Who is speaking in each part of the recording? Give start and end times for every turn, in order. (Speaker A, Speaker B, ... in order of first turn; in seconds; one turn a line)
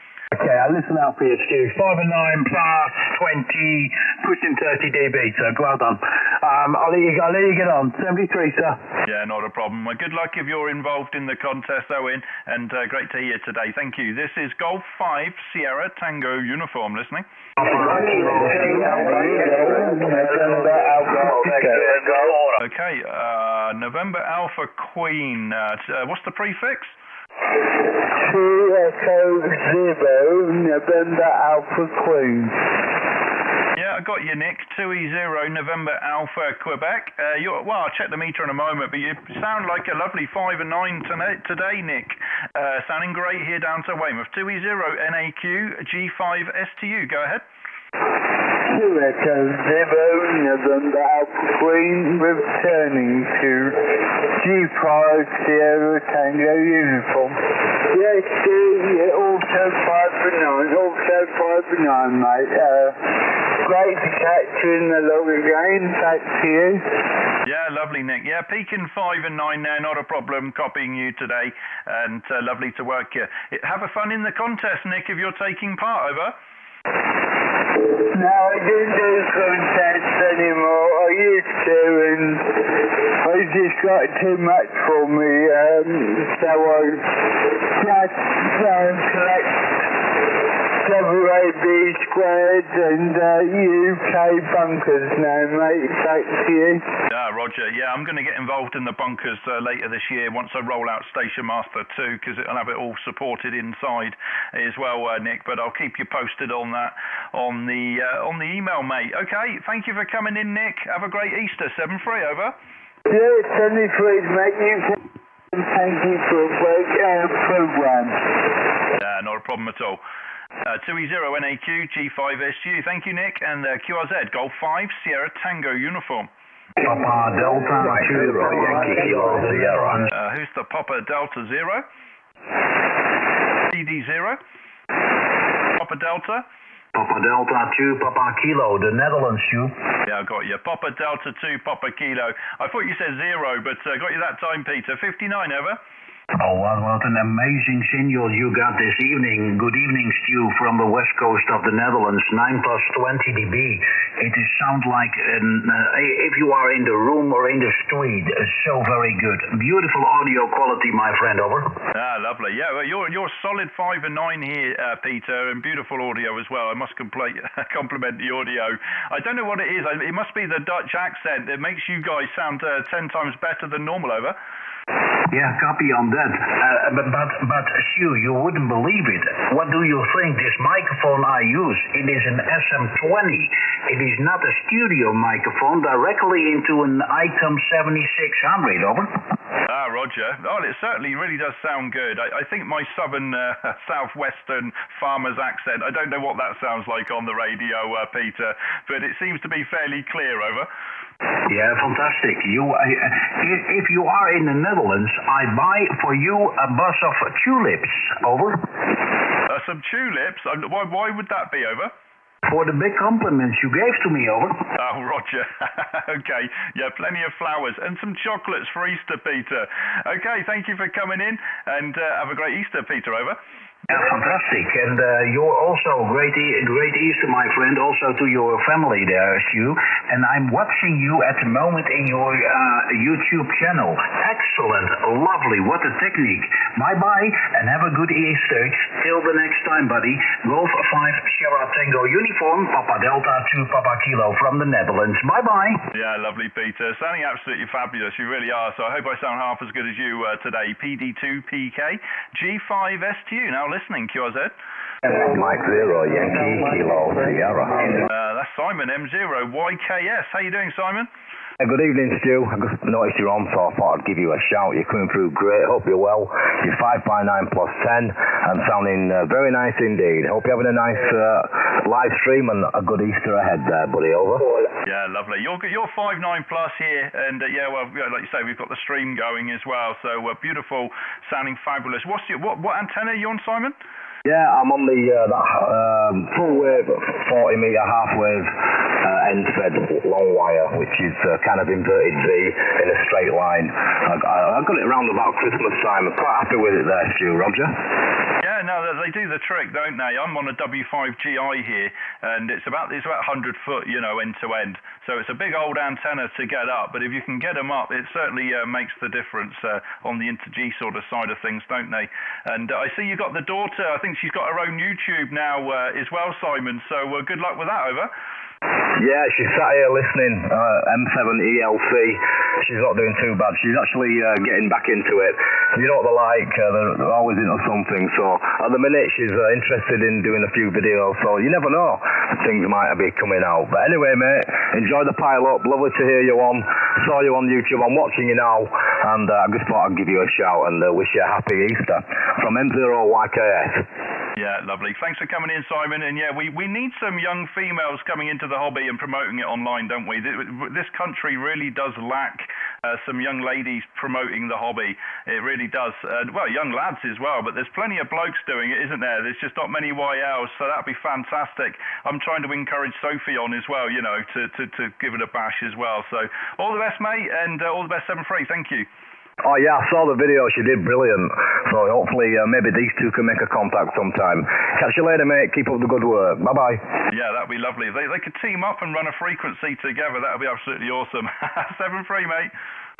Speaker A: 9.1-17.2
Speaker B: 18.9-21.3
Speaker A: 22.6-26.9
Speaker B: 28.1-32.6
Speaker A: 33.8-47.4
Speaker B: 48.7-53.9
Speaker B: 54.4-66.9
Speaker A: 67.4-76.3
Speaker B: 78.1-82.5
Speaker B: 83.2-87.1
Speaker B: 87.7-89.7
Speaker B: 90.8-96.8
Speaker A: 97.1-112.5
Speaker B: 113.1-114.9
Speaker B: 115.5-118.2
Speaker A: 119.0-120.0
Speaker A: 120.6-126.3
Speaker C: 126.8-130.0
Speaker D: 127.8-130.1
Speaker A: 130.1-131.8
Speaker A: 133.7-134.4
Speaker A: 135.8-136.4
Speaker C: 136.9-139.7
Speaker A: 140.1-145.8
Speaker C: 146.3-161.8
Speaker A: 161.9-174.3
Speaker C: 175.3-189.2
Speaker A: 189.7-200.7
Speaker C: 201.5-208.7
Speaker A: 209.5-211.9
Speaker C: 212.4-214.6
Speaker A: 214.8-223.4
Speaker C: 223.9-245.8
Speaker A: 245.9-254.5
Speaker D: 255.1-257.9
Speaker A: 258.1-261.1
Speaker D: 261.6-274.5
Speaker A: 274.8-283.8
Speaker D: 284.2-297.8
Speaker A: 298.4-318.1
Speaker D: 319.0-343.8
Speaker A: 344.4-368.9
Speaker D: 369.4-376.8
Speaker A: 377.1-382.5